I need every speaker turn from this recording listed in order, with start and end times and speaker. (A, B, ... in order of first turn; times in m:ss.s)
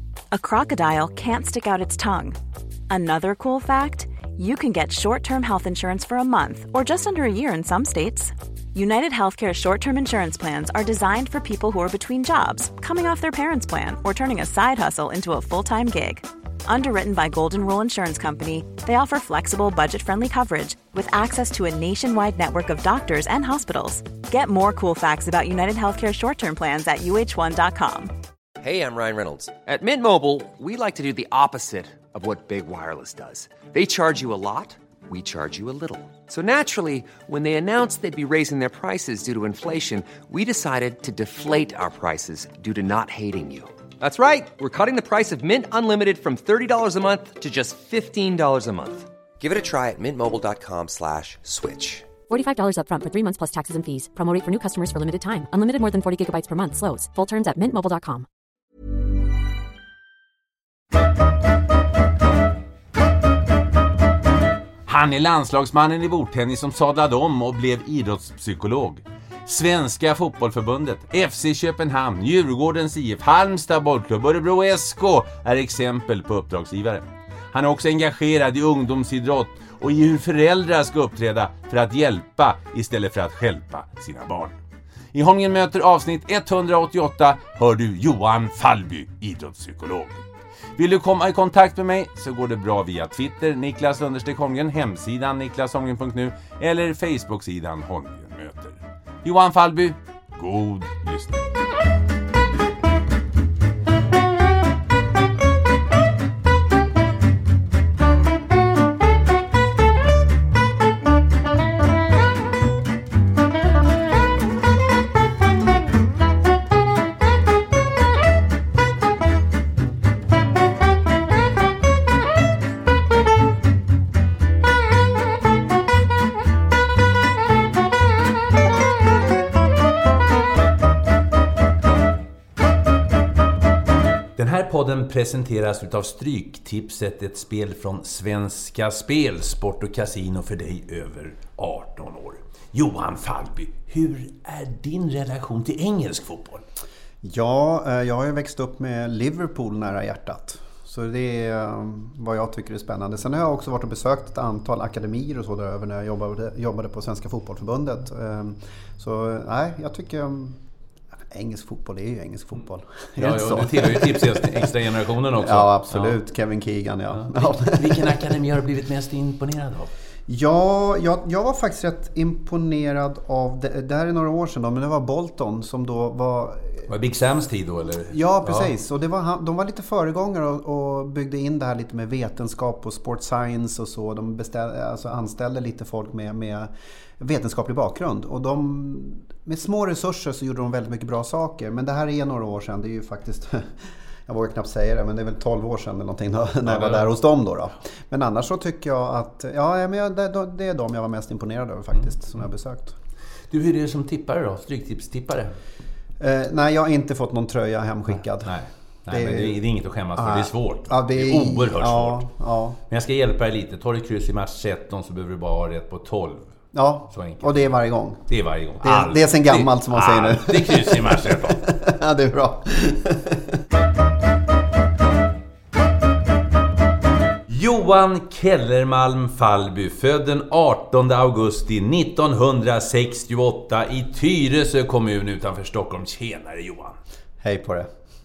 0:00.3-0:02.4 A
0:02.9-0:28.1 A
0:28.6-0:52.1 B
0:52.3-0:58.2 C
1:04.8-1:24.6 D
1:25.1-1:30.2 D
1:30.8-1:41.5 D
2:14.4-2:26.6 D
2:27.2-2:40.6 E
2:41.3-2:44.7 E
2:43.2-2:46.2 D
2:45.3-2:48.2 E
2:47.1-2:49.9 D
2:50.3-2:56.9 E
2:56.9-2:58.7 D
2:58.1-3:23.0 E
3:16.6-3:17.1 D
3:23.5-3:25.5 D
3:26.2-3:28.6 E
3:28.4-3:32.2 D
3:29.1-3:29.6 E
3:30.1-3:32.8 E
3:32.9-3:36.5 D
3:36.7-3:38.2 E
3:37.1-3:37.7 D
3:38.3-3:41.6 D
3:38.8-3:43.6 E
3:47.5-3:57.0 D
3:57.4-3:57.9 E